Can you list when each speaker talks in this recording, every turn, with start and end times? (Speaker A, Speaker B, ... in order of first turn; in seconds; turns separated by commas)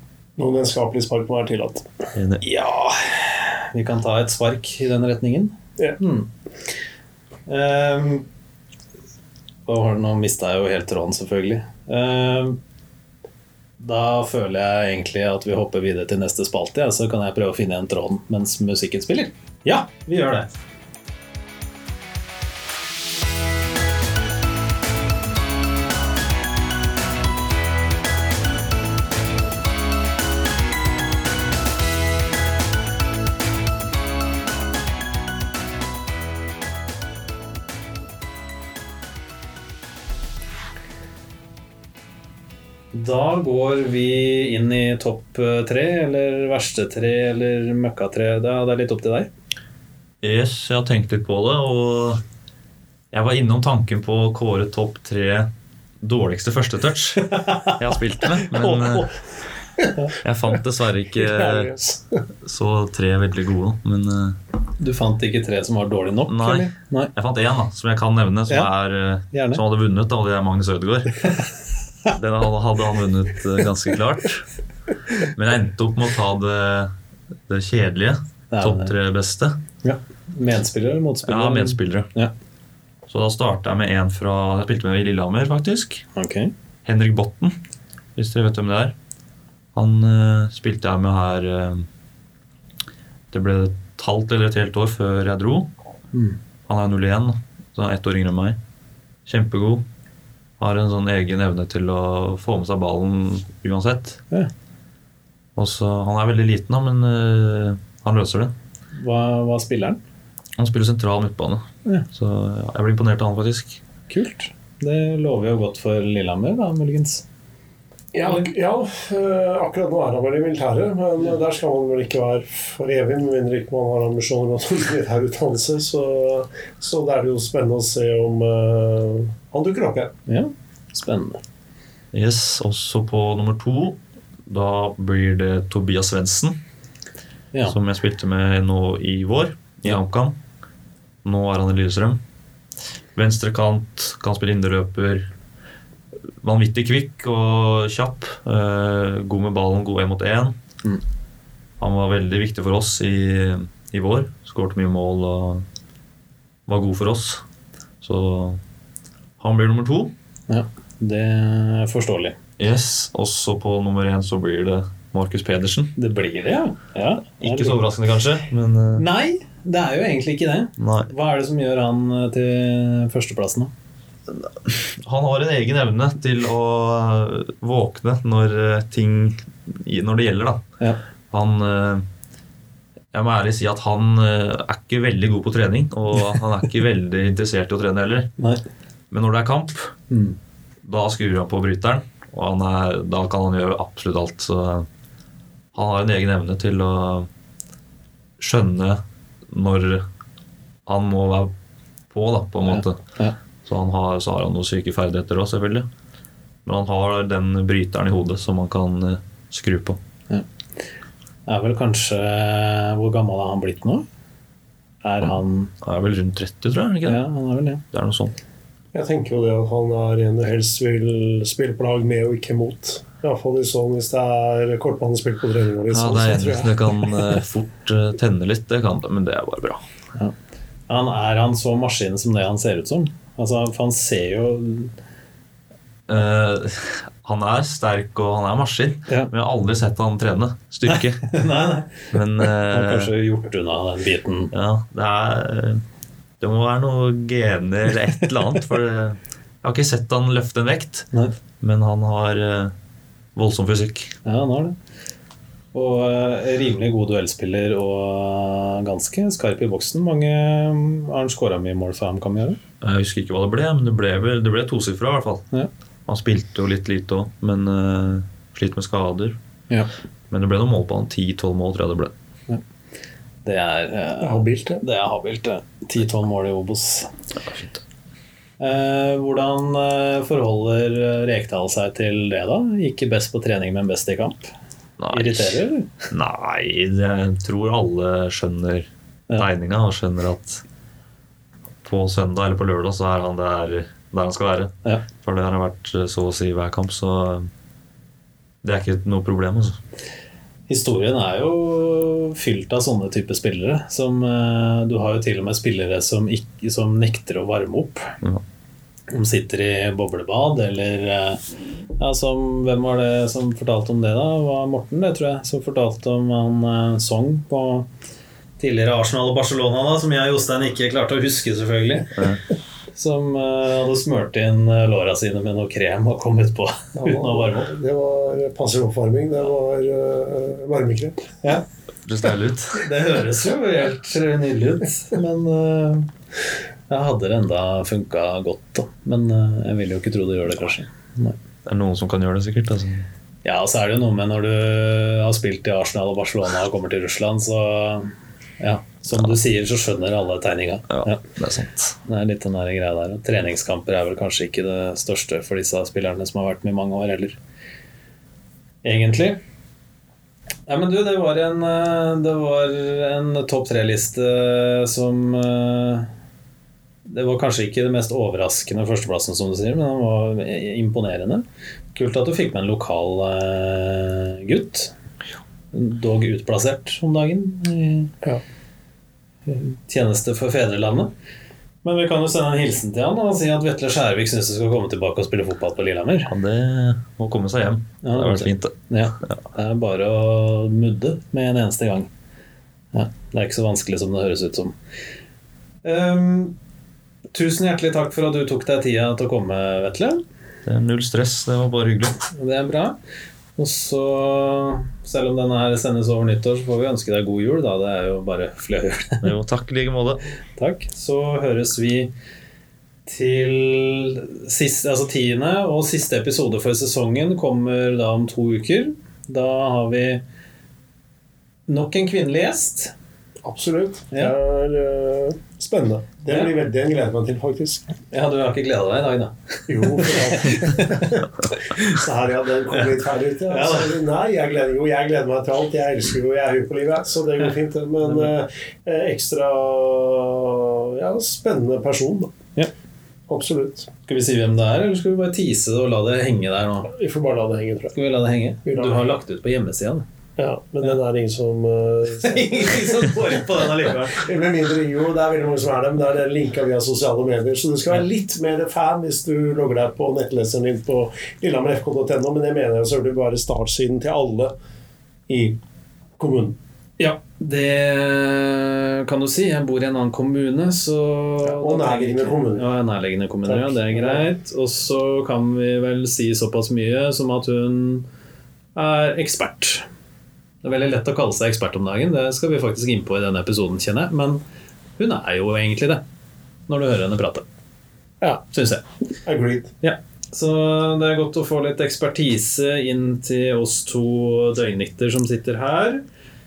Speaker A: 0.4-1.9, Speaker B: 2.2-2.4, Speaker C: 2.4-6.3, Speaker C: 7.5-8.3, Speaker C: 9.7-12.6, Speaker C: 13.8-20.5, Speaker C: 42.9-49.3, Speaker B: 50.2-52.2, Speaker B: 53.1-55.5, Speaker B: 56.0-59.1, Speaker C: 57.3-57.8, Speaker C: 58.4-59.1, Speaker B: 60.2-61.8, Speaker A: 61.2-62.2, Speaker B: 62.4-64.4, Speaker C: 64.8-67.1, Speaker B: 66.3-71.3, Speaker C: 69.3-69.6, Speaker B: 72.1-74.5, Speaker B: 75.2-76.9, Speaker B: 77.5-79.6, Speaker C: 78.5-79.0, Speaker C: 79.8-82.3, Speaker B: 81.2-82.1, Speaker B: 83.1-86.0, Speaker C: 86.2-86.5, Speaker B: 86.9-87.6, Speaker B: 88.2-89.0, Speaker B: 89.8-91.9, Speaker B: 93.3-95.7, Speaker C: 96.1-96.4, Speaker B: 96.7-98.6, Speaker B: 99.3-99.8, Speaker B: 100.6-104.2, Speaker B: 105.6-108.5, Speaker C: 109.0-110.0, Speaker B: 110.6-113.8, Speaker C: 114.1-117.2, Speaker A: 118.1-130.1, Speaker C: 130.3-131.4, Speaker B: 132.1-136.6, Speaker B: 137.7-140.4, Speaker B: 141.2-142.2, Speaker B: 143.2-145.3, Speaker B: 146.4-150.6, Speaker B: 151.8-155.7, Speaker B: 156.7-157.4, Speaker B: 158.0-158.6, Speaker B: 159.4-160.2, Speaker C: 160.5-162.4, Speaker B: 162.6-166.0, Speaker C: 166.0-167.8, Speaker B: 167.3-169.1, Speaker C: 169.0-173.7, Speaker B: 170.8-171.1, Speaker B: 174.3-180.6, Speaker B: 181.3-182.1, Speaker B: 183.1-188.3, Speaker B: 189.1-189.9, Speaker C: 190.1-190.4, Speaker B: 190.8-194.9, Speaker B: 195.7-197.3, Speaker B: 198.4-200.1, Speaker B: 200.9-201.5, Speaker B: 202.1-203.0, Speaker C: 202.7-203.4, Speaker B: 203.7-205.9, Speaker B: 206.7-210.0, Speaker C: 211.5-214.1, Speaker C: 215.0-215.7, Speaker B: 215.8-217.2, Speaker C: 217.1-217.8, Speaker B: 217.9-218.3, Speaker A: 218.9-227.3, Speaker B: 225.9-229.8, Speaker C: 230.9-234.9, Speaker B: 236.1-241.3, Speaker C: 240.9-244.5, Speaker B: 242.1-243.1, Speaker B: 244.5-245.8, Speaker B: 246.4-251.1, Speaker B: 251.6-252.7, Speaker B: 253.4-254.2, Speaker C: 254.2-254.8, Speaker C: 255.7-262.6, Speaker B: 262.8-265.5, Speaker B: 266.1-269.4, Speaker B: 270.3-272.1, Speaker C: 273.4-277.1, Speaker A: 274.2-274.8, Speaker B: 277.4-277.8, Speaker C: 278.6-284.5, Speaker B: 285.0-290.6, Speaker C: 285.1-285.9, Speaker B: 291.8-297.5, Speaker B: 298.6-299.8, Speaker C: 300.7-308.1, Speaker C: 309.1-311.4, Speaker C: 312.0-317.9, Speaker C: 318.6-322.2, Speaker B: 322.1-322.4, Speaker C: 322.9-327.7, Speaker A: 327.0-331.3, Speaker B: 332.1-332.9, Speaker C: 332.8-336.1, Speaker C: 336.9-341.4, Speaker B: 341.6-343.1, Speaker C: 343.4-351.2, Speaker B: 350.9-352.0, Speaker C: 352.1-357.4, Speaker C: 358.8-359.4, Speaker C: 360.7-366.1, Speaker C: 367.1-374.9, Speaker C: 375.7-378.1, Speaker C: 379.5-381.1, Speaker C: 381.8-386.3, Speaker B: 386.3-389.3, Speaker C: 388.0-392.1, Speaker C: 392.9-394.8, Speaker C: 395.8-396.6, Speaker C: 397.3-400.2, Speaker B: 400.7-402.2, Speaker C: 402.3-403.0, Speaker C: 403.6-409.3, Speaker B: 409.2-410.2, Speaker C: 410.6-412.1, Speaker C: 413.1-420.2, Speaker C: 421.7-422.9, Speaker A: 423.4-427.9, Speaker C: 428.1-432.0, Speaker A: 429.7-442.3, Speaker C: 432.7-434.0, Speaker C: 438.0-438.3, Speaker A: 443.3-443.9, Speaker C: 444.1-446.9, Speaker A: 446.9-447.9, Speaker C: 447.9-450.1, Speaker A: 448.6-449.1, Speaker A: 450.4-464.5, Speaker C: 452.1-454.2, Speaker A: 465.3-465.6, Speaker A: 466.2-466.6, Speaker C: 467.0-478.1, Speaker A: 471.4-472.7, Speaker A: 473.5-474.2, Speaker C: 478.8-479.9, Speaker C: 480.6-484.4, Speaker C: 485.0-486.0, Speaker C: 486.7-487.5, Speaker C: 488.5-488.8, Speaker A: 489.2-489.7, Speaker C: 489.8-496.0